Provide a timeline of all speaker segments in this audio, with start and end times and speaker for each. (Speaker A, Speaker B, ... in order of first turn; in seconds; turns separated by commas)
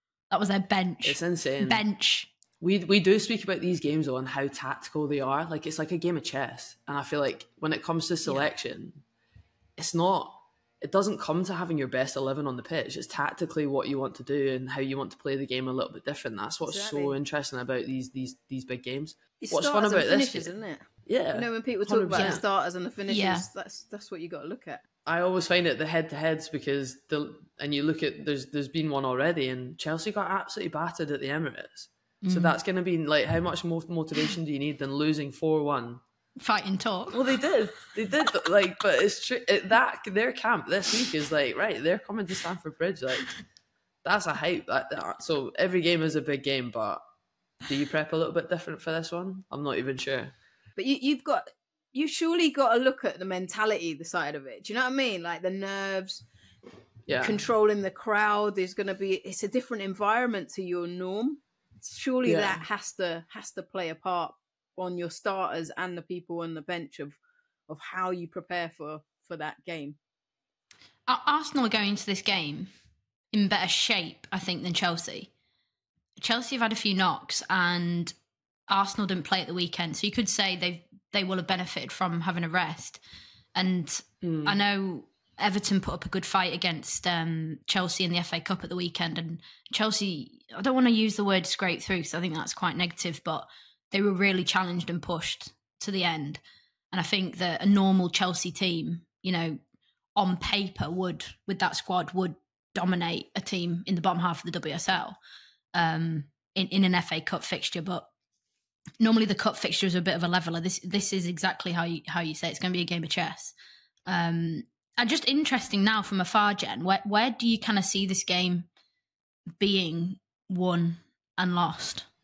Speaker A: 0.3-2.3, Speaker B: 1.0-1.8, Speaker B: 2.6-9.0, Speaker B: 9.8-20.5, Speaker C: 16.7-17.2, Speaker C: 19.4-24.8, Speaker B: 21.0-22.4, Speaker A: 22.1-22.4, Speaker A: 23.1-23.4, Speaker B: 25.0-36.0, Speaker A: 32.2-32.6, Speaker A: 36.4-37.3, Speaker B: 37.1-43.3, Speaker B: 44.0-47.0, Speaker B: 47.6-50.3, Speaker C: 50.8-56.2, Speaker B: 57.0-57.4, Speaker C: 57.2-70.0, Speaker B: 62.2-62.6, Speaker A: 71.1-72.7, Speaker A: 73.3-75.3, Speaker A: 76.2-78.1, Speaker A: 78.7-83.0, Speaker A: 83.5-96.4, Speaker B: 84.2-84.6, Speaker A: 96.9-99.6, Speaker A: 100.2-105.2, Speaker A: 105.7-108.1, Speaker A: 109.0-113.5, Speaker A: 114.1-118.7, Speaker A: 119.6-122.1